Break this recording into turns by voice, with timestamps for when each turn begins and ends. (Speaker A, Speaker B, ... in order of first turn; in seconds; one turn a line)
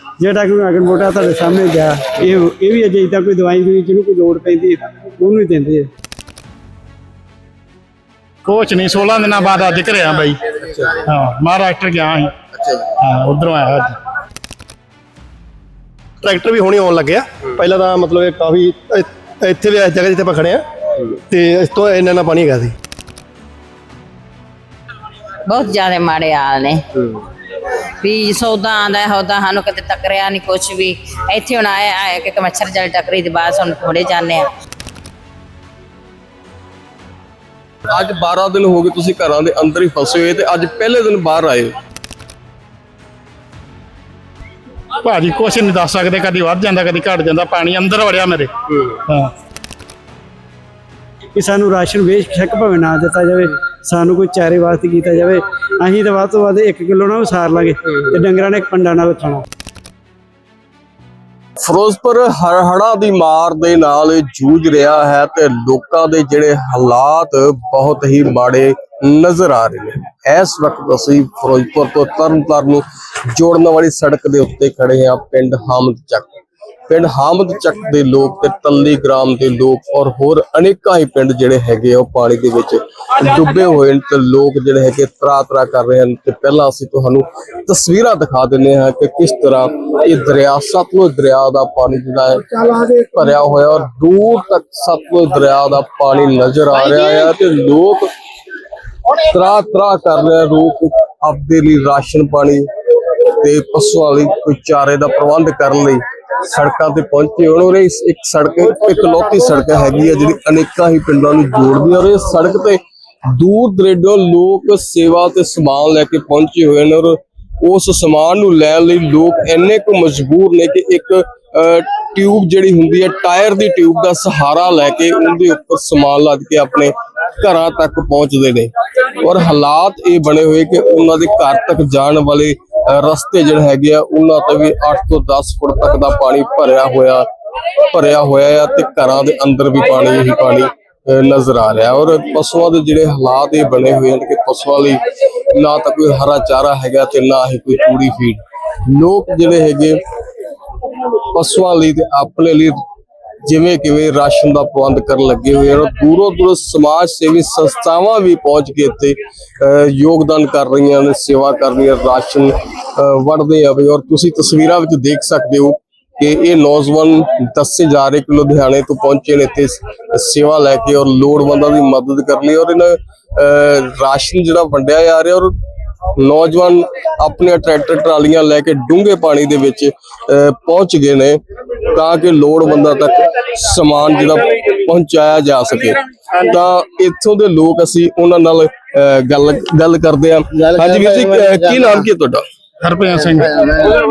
Speaker A: 0.2-5.9
Speaker B: 8.4-12.3
Speaker C: 10.6-11.0
Speaker C: 12.6-12.8
Speaker B: 13.0-13.9
Speaker D: 16.2-20.6
Speaker D: 21.3-22.7
Speaker E: 25.5-26.8
Speaker E: 28.0-34.4
Speaker C: 37.9-41.8
Speaker B: 45.0-48.5
Speaker C: 48.7-49.0
Speaker B: 49.0-49.3
Speaker A: 51.3-59.4
Speaker C: 61.6-98.1
Speaker C: 99.1-102.7
Speaker C: 103.3-137.3
Speaker C: 137.9-150.0
Speaker C: 151.3-152.8
Speaker C: 153.4-175.5
Speaker C: 176.2-192.4
Speaker B: 192.8-193.6